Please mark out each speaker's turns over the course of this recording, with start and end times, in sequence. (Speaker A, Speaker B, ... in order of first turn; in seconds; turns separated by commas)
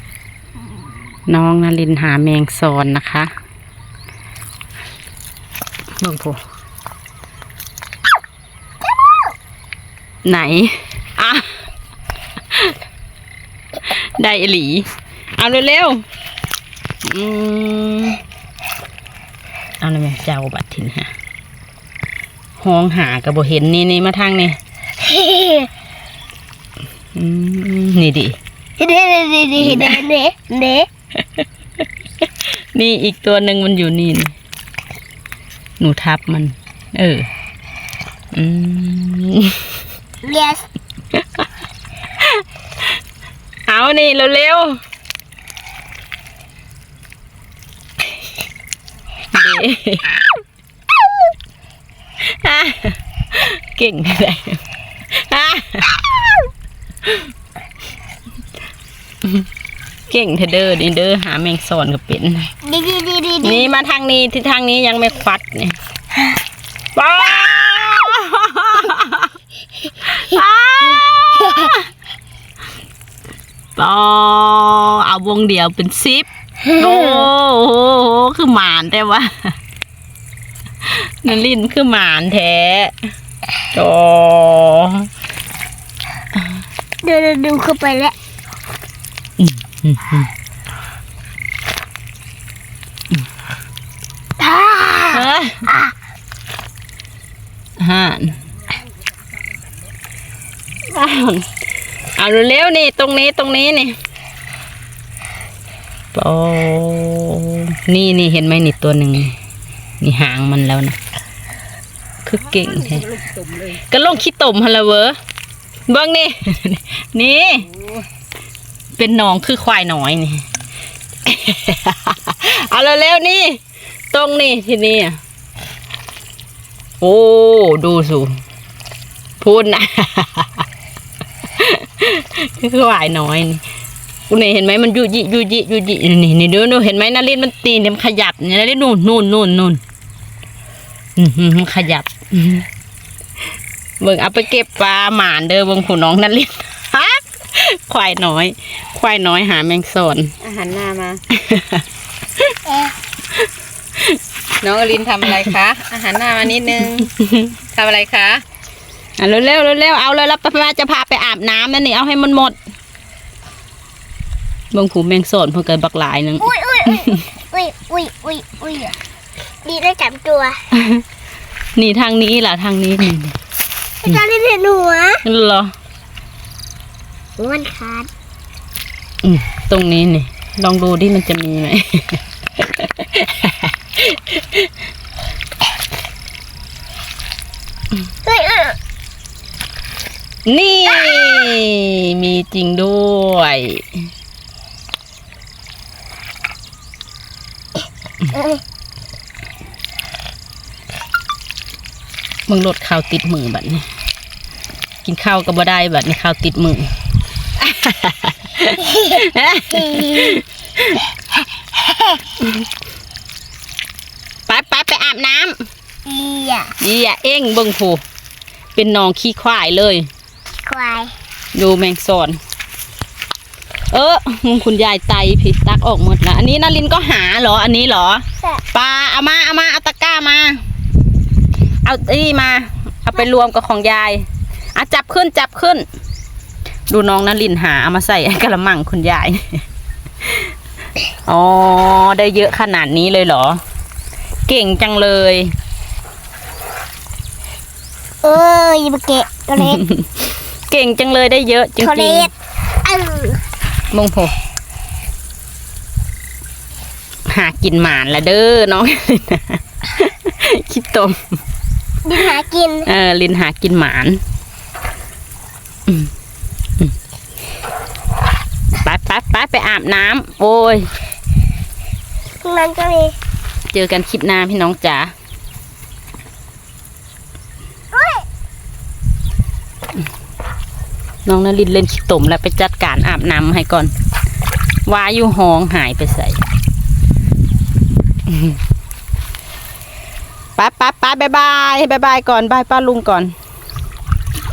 Speaker A: 1.3-3.3, Speaker A: 6.0-6.4, Speaker A: 10.2-11.6, Speaker A: 13.9-16.0, Speaker A: 17.0-18.2, Speaker A: 19.8-21.1, Speaker A: 22.6-24.6, Speaker B: 25.1-25.7, Speaker A: 27.1-28.4, Speaker B: 28.8-30.9, Speaker A: 29.6-30.0, Speaker A: 32.7-34.3, Speaker A: 35.8-37.3, Speaker A: 38.3-39.7, Speaker B: 40.2-40.7, Speaker A: 43.7-44.8, Speaker A: 49.3-50.1, Speaker A: 52.2-56.0, Speaker A: 60.1-62.5, Speaker B: 62.6-63.7, Speaker A: 63.4-65.8, Speaker A: 67.0-69.3, Speaker A: 70.0-71.9, Speaker A: 73.8-79.5, Speaker B: 76.8-77.2, Speaker A: 80.9-82.9, Speaker A: 83.7-85.1, Speaker B: 87.0-88.2, Speaker A: 89.4-90.3, Speaker B: 94.4-95.3, Speaker A: 95.1-95.7, Speaker A: 97.8-98.4, Speaker A: 100.9-101.5, Speaker A: 102.2-104.0, Speaker A: 106.1-109.4, Speaker A: 110.0-111.0, Speaker A: 112.2-113.1, Speaker A: 113.7-115.2, Speaker A: 115.9-117.7, Speaker A: 119.0-120.5, Speaker A: 121.2-123.6, Speaker A: 124.1-125.2, Speaker A: 127.0-128.4, Speaker A: 129.4-130.6, Speaker A: 131.6-133.6, Speaker A: 134.3-139.8, Speaker A: 141.2-142.7, Speaker A: 144.0-150.4, Speaker C: 150.4-151.2, Speaker A: 151.3-151.8, Speaker C: 154.6-157.1, Speaker A: 155.2-155.6, Speaker A: 156.9-157.5, Speaker C: 157.8-158.4, Speaker A: 159.2-162.6, Speaker A: 164.7-166.5, Speaker B: 166.4-168.9, Speaker B: 169.6-170.6, Speaker A: 170.7-171.0, Speaker A: 171.8-173.4, Speaker B: 174.0-175.2, Speaker A: 175.2-175.7, Speaker B: 177.4-178.1, Speaker A: 179.2-184.7, Speaker B: 188.2-188.8, Speaker A: 190.5-193.8, Speaker A: 202.5-203.8, Speaker A: 205.1-206.9, Speaker A: 207.6-211.0, Speaker B: 210.0-210.3, Speaker A: 214.5-215.6, Speaker B: 216.1-216.7, Speaker A: 216.8-218.0, Speaker A: 218.8-220.1, Speaker B: 220.6-221.1, Speaker A: 221.6-222.4, Speaker A: 223.9-230.6, Speaker A: 231.8-235.8, Speaker A: 236.9-239.6, Speaker A: 241.2-243.6, Speaker A: 244.5-245.5, Speaker B: 248.2-249.8, Speaker A: 249.6-252.3, Speaker B: 251.8-252.3, Speaker B: 252.8-253.4, Speaker A: 253.9-254.3, Speaker A: 257.3-261.4, Speaker B: 262.0-262.9, Speaker A: 262.9-264.2, Speaker A: 268.8-270.9, Speaker B: 272.4-273.2, Speaker A: 273.7-275.1, Speaker B: 277.9-278.2, Speaker A: 281.2-283.9, Speaker A: 284.9-286.4, Speaker A: 290.6-293.3